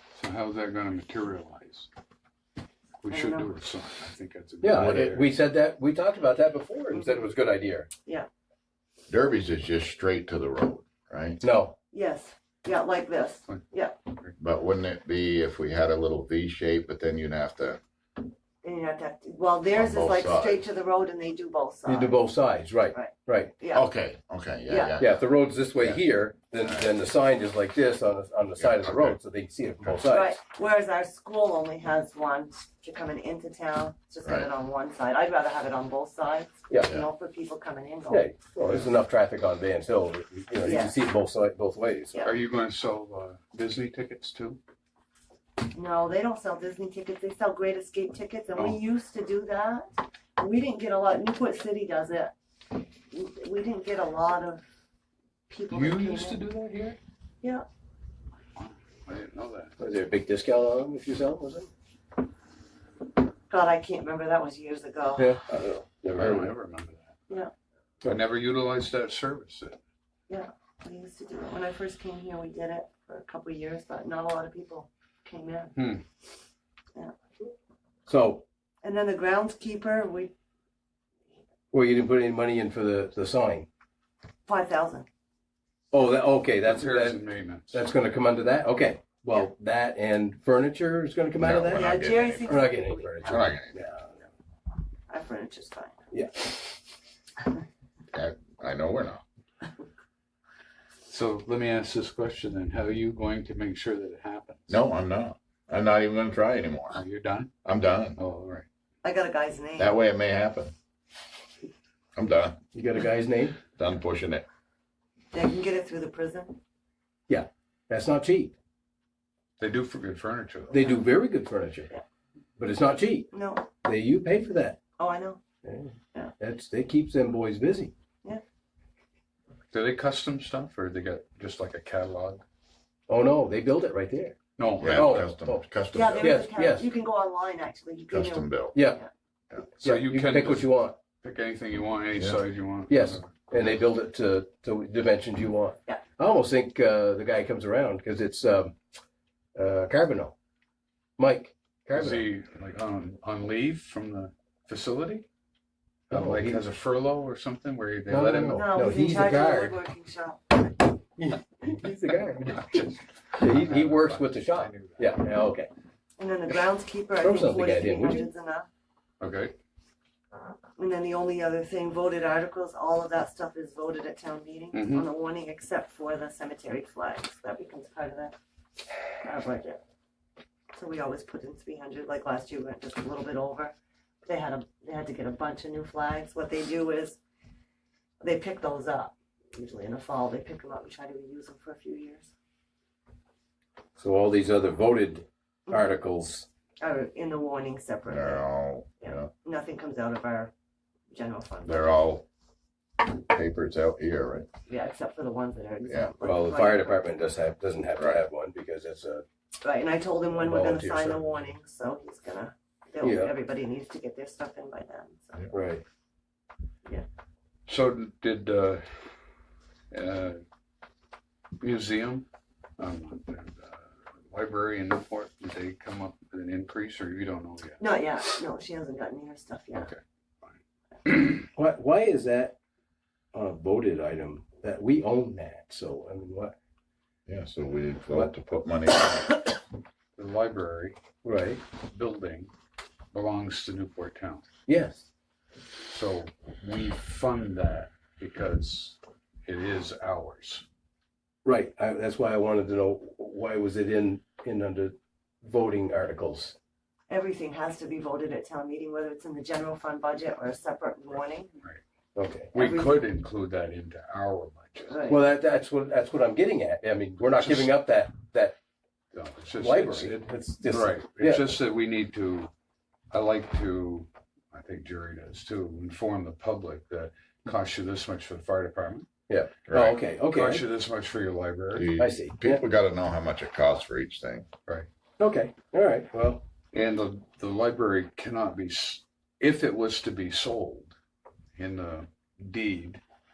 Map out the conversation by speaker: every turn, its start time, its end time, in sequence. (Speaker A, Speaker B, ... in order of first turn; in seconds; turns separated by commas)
Speaker A: 0.1-1.9, Speaker A: 3.0-5.3, Speaker B: 3.1-3.5, Speaker C: 4.6-7.9, Speaker D: 4.8-5.1, Speaker B: 7.0-7.2, Speaker D: 9.1-11.4, Speaker C: 11.4-11.8, Speaker B: 11.9-14.0, Speaker D: 14.4-17.8, Speaker B: 18.6-22.2, Speaker D: 19.7-20.6, Speaker C: 21.9-23.5, Speaker B: 22.9-23.9, Speaker D: 23.7-25.2, Speaker B: 24.7-25.0, Speaker C: 25.0-30.4, Speaker D: 26.6-26.9, Speaker D: 28.6-29.2, Speaker D: 29.8-30.1, Speaker B: 30.1-38.3, Speaker C: 38.1-42.3, Speaker B: 40.6-41.0, Speaker A: 42.2-44.6, Speaker B: 45.7-49.9, Speaker B: 50.4-52.4, Speaker B: 53.1-54.6, Speaker B: 55.5-56.4, Speaker A: 55.7-56.6, Speaker C: 56.3-57.0, Speaker A: 58.6-59.8, Speaker C: 59.8-61.7, Speaker B: 63.5-65.4, Speaker C: 65.2-66.5, Speaker A: 66.1-67.2, Speaker A: 68.0-69.8, Speaker B: 70.3-75.7, Speaker A: 75.8-76.0, Speaker C: 78.1-78.4, Speaker B: 78.8-80.3, Speaker C: 81.7-83.7, Speaker B: 84.5-85.1, Speaker C: 85.9-94.1, Speaker A: 86.6-87.9, Speaker D: 91.4-92.7, Speaker B: 91.7-93.4, Speaker D: 93.2-93.8, Speaker B: 95.1-96.0, Speaker C: 96.1-96.6, Speaker D: 98.1-99.2, Speaker A: 101.1-104.7, Speaker D: 104.7-107.0, Speaker A: 106.9-107.5, Speaker D: 107.6-108.2, Speaker A: 108.2-108.7, Speaker B: 109.0-110.0, Speaker D: 109.8-110.7, Speaker D: 112.2-112.6, Speaker C: 112.7-113.6, Speaker D: 113.7-114.5, Speaker B: 115.3-116.6, Speaker C: 117.3-118.5, Speaker A: 119.6-121.0, Speaker C: 120.7-121.9, Speaker C: 122.6-123.3, Speaker B: 123.3-123.7, Speaker C: 123.8-124.8, Speaker B: 125.0-125.4, Speaker C: 125.6-127.9, Speaker A: 129.7-132.4, Speaker C: 133.1-135.6, Speaker A: 134.6-135.3, Speaker D: 134.8-136.4, Speaker B: 135.9-139.1, Speaker C: 136.1-136.9, Speaker D: 138.1-138.8, Speaker C: 138.7-139.0, Speaker C: 139.7-141.0, Speaker A: 139.8-143.5, Speaker D: 142.2-142.4, Speaker C: 142.9-148.8, Speaker C: 149.6-150.3, Speaker C: 151.2-152.3, Speaker A: 151.9-155.2, Speaker A: 156.1-158.8, Speaker C: 156.1-156.7, Speaker C: 158.1-159.8, Speaker B: 158.5-160.6, Speaker C: 161.2-162.8, Speaker A: 162.6-165.2, Speaker C: 163.4-165.7, Speaker B: 166.2-168.7, Speaker C: 167.2-168.3, Speaker A: 169.2-169.5, Speaker B: 170.8-178.4, Speaker A: 174.7-175.1, Speaker B: 179.2-179.8, Speaker B: 180.7-183.7, Speaker B: 184.2-187.2, Speaker B: 188.2-192.3, Speaker C: 194.0-196.5, Speaker B: 196.8-198.4, Speaker D: 198.1-199.3, Speaker B: 199.0-200.5, Speaker B: 201.1-201.9, Speaker D: 201.7-202.3, Speaker D: 203.0-204.5, Speaker B: 204.7-207.0, Speaker D: 205.9-206.1, Speaker C: 206.2-209.2, Speaker D: 207.9-208.2, Speaker B: 209.6-215.5, Speaker C: 210.3-211.4, Speaker C: 213.0-213.3, Speaker C: 215.5-215.8, Speaker A: 217.7-219.0, Speaker A: 219.9-220.4, Speaker A: 221.6-222.3, Speaker A: 222.8-227.8, Speaker B: 227.8-229.9, Speaker A: 229.8-231.4, Speaker C: 231.5-232.6, Speaker C: 233.3-236.6, Speaker D: 237.3-239.5, Speaker A: 240.2-241.0, Speaker C: 241.2-241.6, Speaker A: 241.8-242.5, Speaker A: 243.1-244.4, Speaker C: 244.7-245.1, Speaker A: 245.9-250.6, Speaker C: 251.4-256.6, Speaker B: 257.1-261.5, Speaker C: 262.1-262.5, Speaker A: 262.5-265.1, Speaker B: 262.6-263.0, Speaker B: 264.9-265.2, Speaker C: 265.1-268.6, Speaker A: 267.3-267.7, Speaker A: 269.1-272.5, Speaker C: 269.6-271.6, Speaker A: 273.1-279.1, Speaker C: 279.3-280.7, Speaker D: 279.7-280.0, Speaker A: 280.3-281.9, Speaker D: 281.7-284.5, Speaker C: 282.0-282.6, Speaker C: 285.2-286.4, Speaker A: 286.7-290.9, Speaker A: 291.6-293.0